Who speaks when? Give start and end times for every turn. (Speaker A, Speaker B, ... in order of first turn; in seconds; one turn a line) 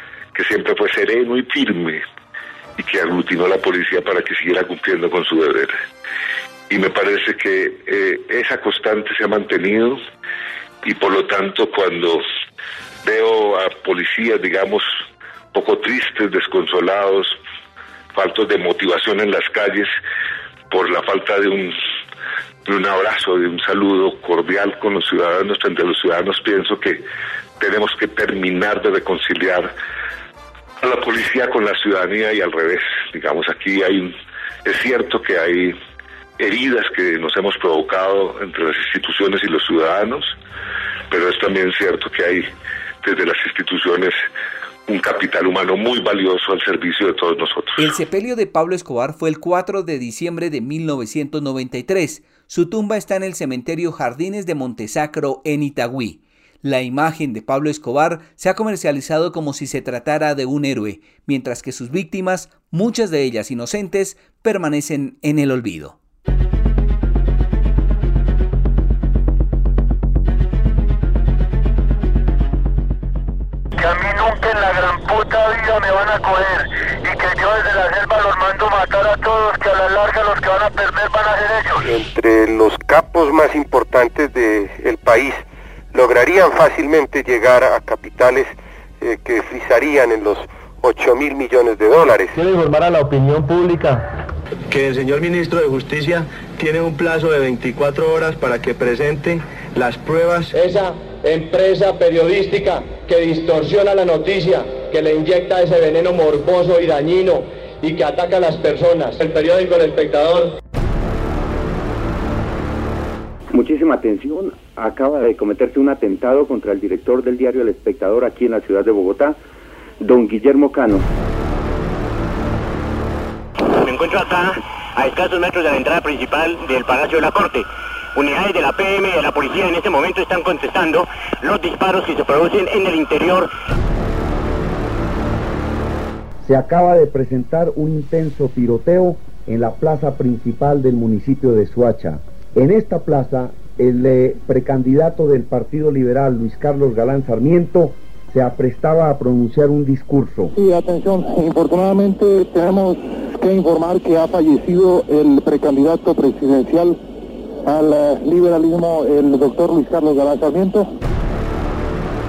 Speaker A: 0.3-2.0
Speaker A: 2.8-5.8
Speaker A: 6.7-10.0
Speaker A: 10.8-12.2
Speaker A: 13.0-17.4
Speaker A: 18.1-19.9
Speaker A: 20.7-21.8
Speaker A: 22.6-27.0
Speaker A: 27.6-29.7
Speaker A: 30.8-35.8
Speaker A: 36.4-40.4
Speaker A: 41.1-42.5
Speaker A: 43.0-44.2
Speaker A: 44.9-47.8
Speaker B: 47.8-66.0
Speaker C: 73.8-81.8
Speaker D: 81.9-92.4
Speaker E: 92.3-94.1
Speaker F: 94.7-100.5
Speaker E: 100.5-110.5
Speaker G: 113.5-119.4
Speaker G: 120.0-121.1
Speaker H: 123.7-133.5
Speaker I: 136.4-150.6
Speaker J: 150.6-157.0
Speaker J: 157.7-160.9